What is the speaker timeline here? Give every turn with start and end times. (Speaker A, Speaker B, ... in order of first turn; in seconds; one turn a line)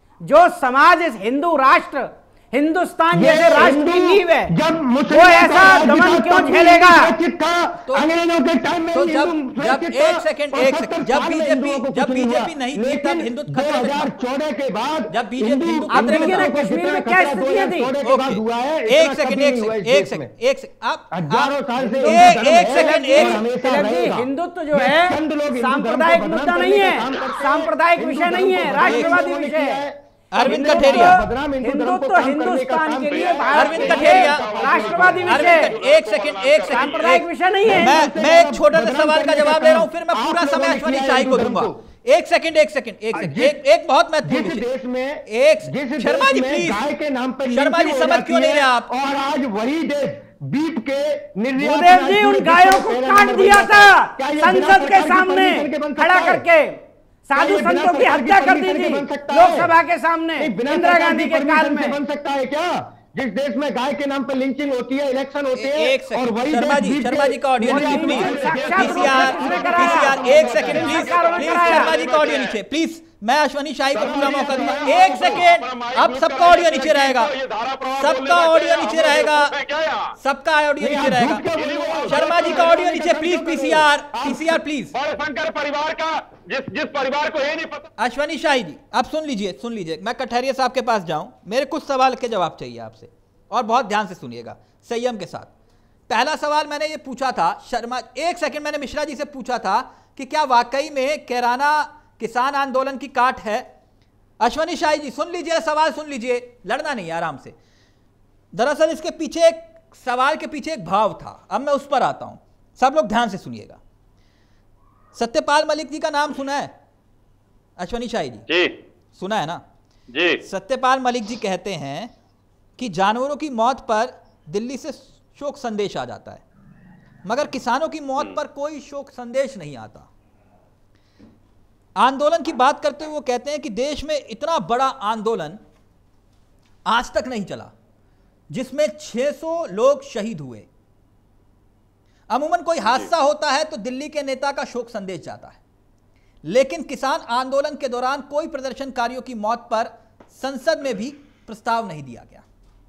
Speaker A: 0.2-4.5
Speaker B: 3.1-20.3
Speaker A: 5.1-7.1
Speaker C: 8.9-14.1
Speaker C: 15.1-16.5
Speaker A: 15.9-17.9
Speaker C: 18.0-23.4
Speaker B: 21.1-35.4
Speaker A: 21.9-29.8
Speaker C: 28.9-29.2
Speaker C: 30.3-31.2
Speaker A: 30.4-35.8
Speaker D: 33.1-37.2
Speaker C: 33.5-34.5
Speaker C: 35.2-44.6
Speaker A: 36.7-38.0
Speaker B: 37.6-41.8
Speaker B: 43.1-43.6
Speaker B: 44.2-56.4
Speaker C: 45.3-46.8
Speaker C: 47.5-48.9
Speaker A: 51.5-62.0
Speaker B: 57.4-59.7
Speaker B: 60.4-71.2
Speaker C: 65.5-77.3
Speaker A: 67.6-71.9
Speaker D: 69.4-69.7
Speaker D: 70.6-72.5
Speaker B: 73.9-75.4
Speaker D: 73.9-80.2
Speaker C: 78.0-79.5
Speaker C: 80.2-81.4
Speaker B: 80.8-84.6
Speaker D: 81.5-82.7
Speaker C: 82.0-84.9
Speaker D: 84.9-87.9
Speaker C: 88.0-95.5
Speaker C: 96.1-103.7
Speaker C: 104.4-107.5
Speaker C: 108.5-113.8
Speaker C: 115.1-116.7
Speaker C: 117.8-118.5
Speaker D: 118.5-118.8
Speaker C: 119.2-119.6
Speaker D: 120.1-120.4
Speaker C: 120.4-122.1
Speaker C: 122.8-126.4
Speaker C: 127.2-130.1
Speaker C: 132.0-135.6
Speaker C: 136.8-137.7
Speaker C: 138.5-140.7
Speaker C: 142.3-145.6
Speaker C: 146.4-152.4